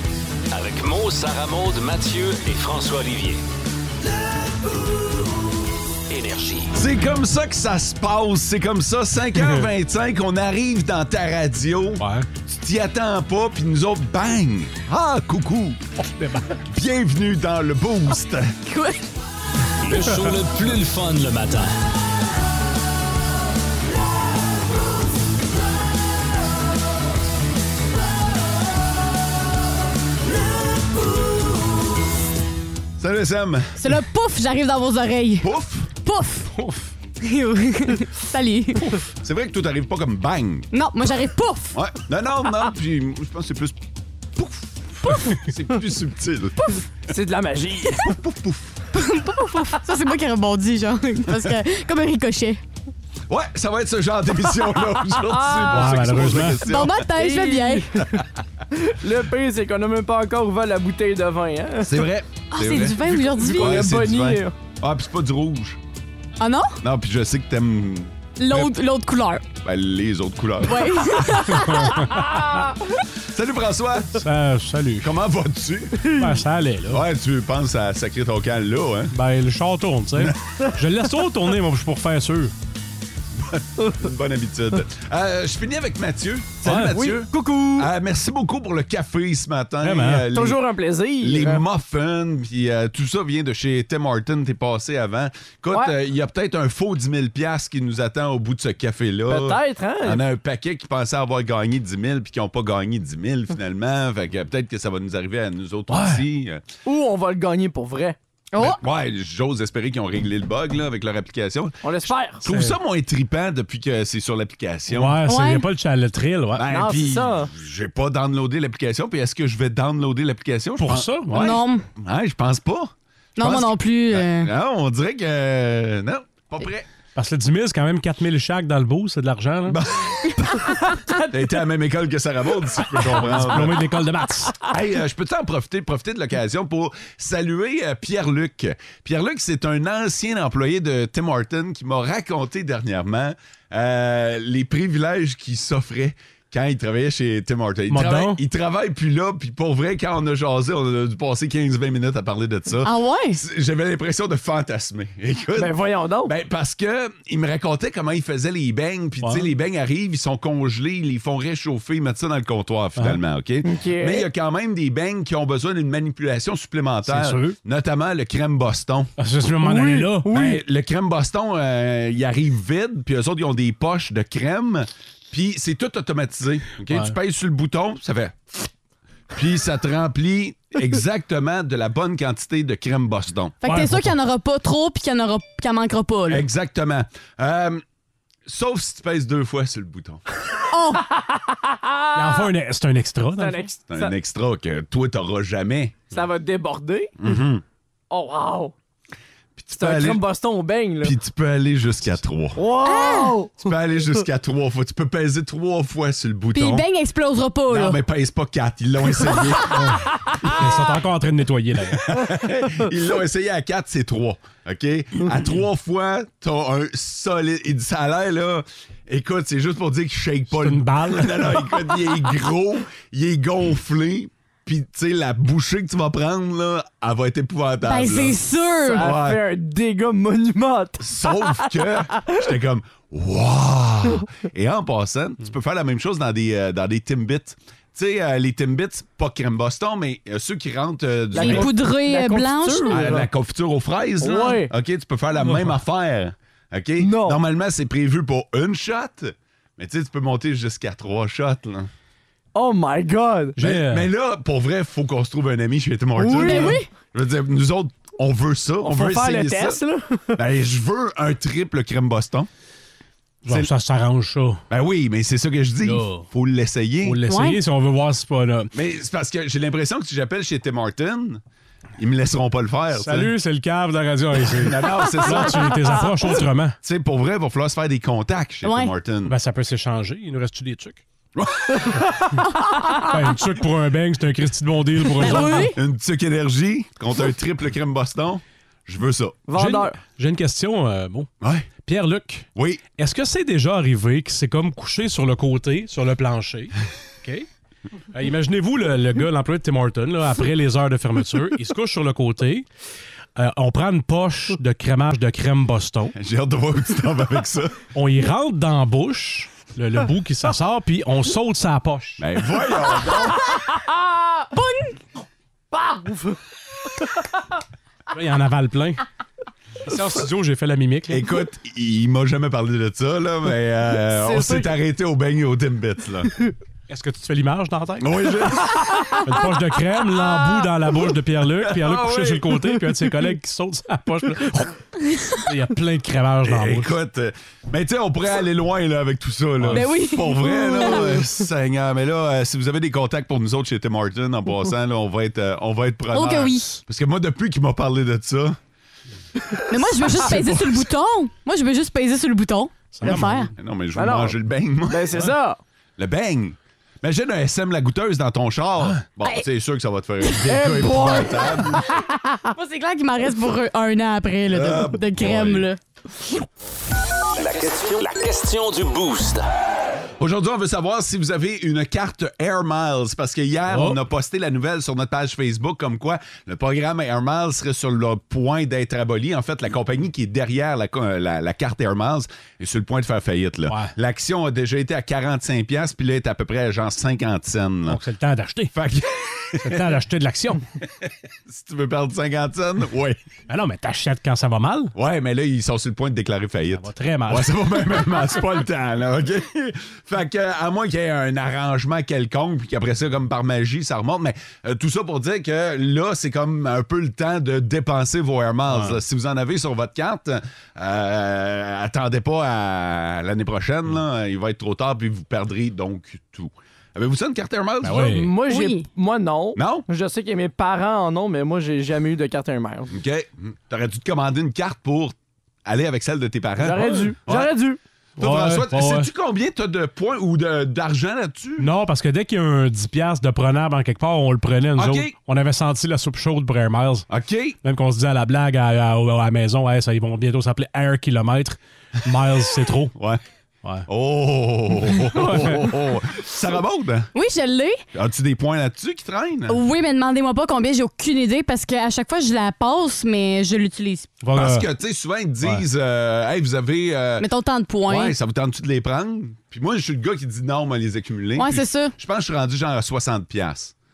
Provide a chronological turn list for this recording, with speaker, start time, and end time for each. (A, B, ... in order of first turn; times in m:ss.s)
0:00.5-0:03.4 A
0:06.1-0:06.7 A
0:06.7-0:15.8 B
0:12.0-0:12.3 C
0:16.0-0:16.6 C
0:16.6-0:18.5 B
0:18.6-0:19.0 D
0:19.8-0:21.7 A
0:19.9-0:20.4 C
0:33.0-0:34.0 B
0:33.8-0:35.5 D
0:35.4-0:35.9 B
0:36.0-0:36.5 D
0:36.5-0:36.9 C
0:37.2-0:39.0 D
0:39.2-0:40.7 B
0:40.7-0:41.8 D
0:41.7-0:43.8 B
0:44.3-0:46.7 B
0:47.1-0:48.1 E
0:48.0-0:48.8 B
0:48.9-0:52.6 D
0:51.3-0:51.5 B
0:53.3-0:57.0 B
0:55.2-0:56.1 E
0:55.7-0:56.6 C
0:56.6-0:57.9 D
0:57.1-0:58.0 E
0:58.7-1:02.1 E
1:01.8-1:05.8 B
1:02.5-1:03.8 D
1:03.4-1:04.5 E
1:06.4-1:06.8 D
1:06.8-1:08.7 B
1:08.4-1:09.4 D
1:09.6-1:11.5 B
1:10.7-1:12.0 D
1:11.6-1:12.4 C
1:13.3-1:14.2 B
1:14.2-1:15.1 C
1:15.0-1:16.1 B
1:16.1-1:17.0 C
1:16.9-1:19.1 B
1:19.1-1:22.5 C
1:23.3-1:30.6 B
1:26.6-1:27.0 C
1:26.9-1:27.9 E
1:29.8-1:30.2 C
1:30.3-1:31.6 E
1:31.2-1:46.6 B
1:39.3-1:40.2 E
1:45.9-1:46.2 C
1:46.8-1:48.2 E
1:48.5-1:48.8 D
1:48.6-1:55.2 B
1:51.8-1:52.4 E
1:54.9-1:56.7 C
1:55.3-1:55.6 D
1:56.5-2:06.9 B
1:56.7-1:57.5 E
2:00.8-2:01.5 C
2:01.3-2:01.8 D
2:03.4-2:04.5 D
2:07.1-2:09.8 C
2:09.7-2:13.8 B
2:13.0-2:14.5 C
2:14.6-2:49.1 B
2:27.9-2:28.4 C
2:32.8-2:33.4 D
2:35.6-2:36.3 E
2:39.2-2:39.4 C
2:43.6-2:44.3 E
2:47.1-2:47.6 C
2:49.2-2:50.3 C
2:49.6-2:50.6 E
2:50.3-2:58.4 B
2:59.3-3:03.6 B
3:03.6-3:06.4 D
3:03.6-3:04.1 C
3:06.3-3:07.8 B
3:08.4-3:10.2 B
3:10.7-3:11.0 D
3:11.9-3:12.4 E
3:12.1-3:13.6 C
3:13.4-3:14.1 E
3:13.9-3:16.0 B
3:16.1-3:17.1 E
3:17.2-3:17.6 B
3:18.1-3:18.7 E
3:19.6-3:20.2 B
3:19.8-3:21.2 E
3:21.0-3:22.6 B
3:22.6-3:23.7 E
3:22.8-3:23.3 D
3:23.6-3:26.8 B
3:26.5-3:28.0 D
3:27.7-3:30.0 B
3:29.7-3:32.1 C
3:32.0-3:48.4 B
3:40.6-3:41.6 C
3:47.8-3:49.0 D
3:48.8-3:52.4 E
3:48.9-3:49.4 B
3:51.0-4:01.7 B
4:01.3-4:03.3 E
4:01.4-4:03.0 D
4:02.9-4:11.9 B
4:04.2-4:04.7 E
4:07.0-4:07.4 E
4:12.5-4:13.5 E
4:13.6-4:14.1 C
4:13.6-4:19.8 B
4:16.2-4:16.9 D
4:16.4-4:16.8 E
4:18.9-4:20.4 E
4:20.3-4:22.5 B
4:23.4-4:24.6 C
4:24.7-4:27.2 B
4:25.8-4:26.2 C
4:27.0-4:28.7 C
4:27.3-4:27.6 D
4:28.7-4:31.4 B
4:32.0-4:33.3 B
4:32.9-4:36.7 C
4:34.4-4:35.8 B
4:36.8-4:39.4 B
4:38.6-4:38.9 D
4:39.3-4:41.0 C
4:41.4-4:41.9 B
4:43.0-4:45.7 C
4:45.2-4:45.8 D
4:45.5-4:49.4 B
4:49.5-4:50.0 E
4:49.5-4:51.3 C
4:51.4-4:51.7 B
4:51.8-4:57.5 C
4:52.6-4:52.8 B
4:58.1-5:02.7 C
5:03.4-5:06.1 C
5:06.2-5:07.8 B
5:07.9-5:12.2 C
5:12.2-5:13.3 B
5:14.5-5:15.0 D
5:15.7-5:16.4 E
5:18.1-5:19.0 C
5:19.8-5:21.2 C
5:21.1-5:26.3 B
5:24.0-5:24.7 E
5:26.9-5:28.2 C
5:28.0-5:29.1 B
5:29.2-5:34.8 C
5:31.6-5:32.5 B
5:35.3-5:36.9 C
5:36.4-5:48.6 B
5:39.6-5:39.8 C
5:39.7-5:41.1 D
5:46.1-5:46.8 D
5:49.7-5:53.5 D
5:50.2-5:50.7 B
5:53.0-5:53.5 C
5:53.0-5:55.3 B
5:53.9-5:55.6 E
5:56.0-6:02.0 B
6:00.4-6:01.8 E
6:02.5-6:05.8 D
6:04.5-6:05.7 B
6:07.3-6:09.4 A
6:10.2-6:28.0 B
6:13.7-6:14.0 C
6:27.9-6:28.7 C
6:28.7-6:29.8 B
6:29.6-6:30.6 C
6:31.1-6:33.2 B
6:33.5-6:34.9 C
6:35.0-6:58.2 B
6:36.8-6:37.5 C
6:48.7-6:49.0 C
6:57.8-6:58.3 C
6:57.9-7:02.9 E
6:58.5-6:58.8 D
6:59.6-6:59.8 B
7:02.9-7:07.5 B
7:06.6-7:07.8 E
7:06.8-7:07.1 C
7:08.2-7:11.7 B
7:08.2-7:09.1 C
7:11.6-7:17.0 C
7:14.8-7:15.1 B
7:17.1-7:17.6 B
7:17.6-7:22.9 C
7:23.0-7:23.2 B
7:23.9-7:27.1 B
7:25.0-7:25.7 C
7:27.1-7:27.8 D
7:27.9-7:29.6 B
7:29.5-7:34.1 D
7:34.2-7:34.7 C
7:34.3-7:37.3 B
7:37.2-7:38.1 D
7:37.9-7:43.7 B
7:41.4-7:41.9 D